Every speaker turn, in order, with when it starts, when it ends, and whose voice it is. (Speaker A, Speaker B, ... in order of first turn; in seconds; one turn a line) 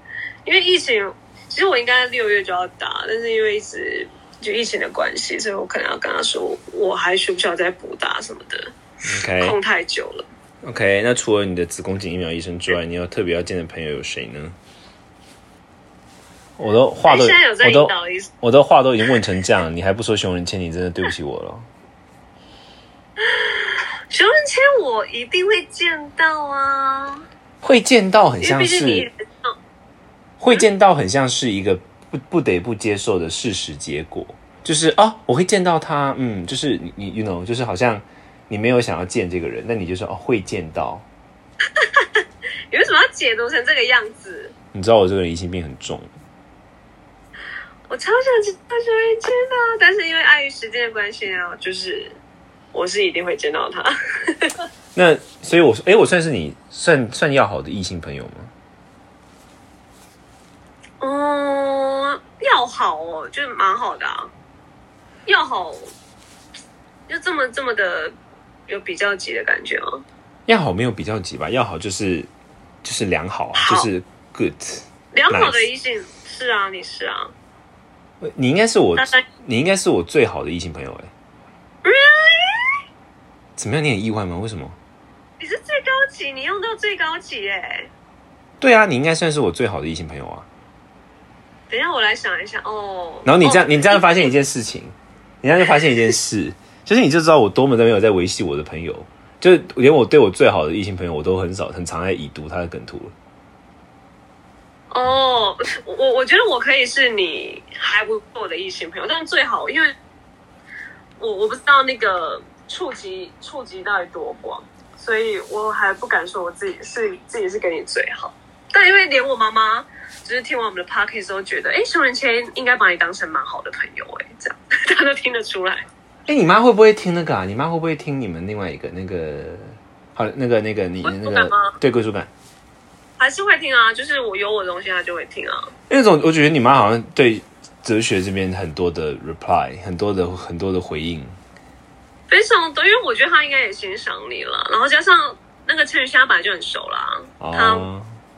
Speaker A: 0.4-8.7
Speaker B: 9.1-9.6
Speaker A: 9.4-10.2
Speaker B: 10.6-14.6
Speaker B: 16.6-21.7
Speaker A: 17.1-18.3
Speaker A: 23.2-27.2
Speaker B: 27.6-29.1
Speaker A: 28.4-29.6
Speaker B: 30.4-41.0
Speaker A: 41.8-44.5
Speaker B: 44.7-46.1
Speaker A: 47.9-52.2
Speaker A: 52.7-54.6
Speaker B: 54.9-58.5
Speaker A: 61.0-64.3
Speaker A: 65.2-65.9
Speaker A: 67.1-68.1
Speaker A: 68.7-70.0
Speaker B: 70.5-72.3
Speaker B: 72.8-75.6
Speaker A: 73.6-73.9
Speaker A: 75.1-77.3
Speaker B: 78.2-81.1
Speaker A: 81.8-82.8
Speaker B: 83.6-84.8
Speaker A: 85.4-87.9
Speaker B: 88.6-90.5
Speaker A: 91.7-94.0
Speaker B: 93.2-103.1
Speaker A: 104.9-109.9
Speaker A: 111.2-125.8
Speaker B: 126.3-132.3
Speaker A: 131.1-131.8
Speaker A: 133.2-135.7
Speaker B: 135.9-141.3
Speaker A: 142.3-147.9
Speaker B: 147.4-148.1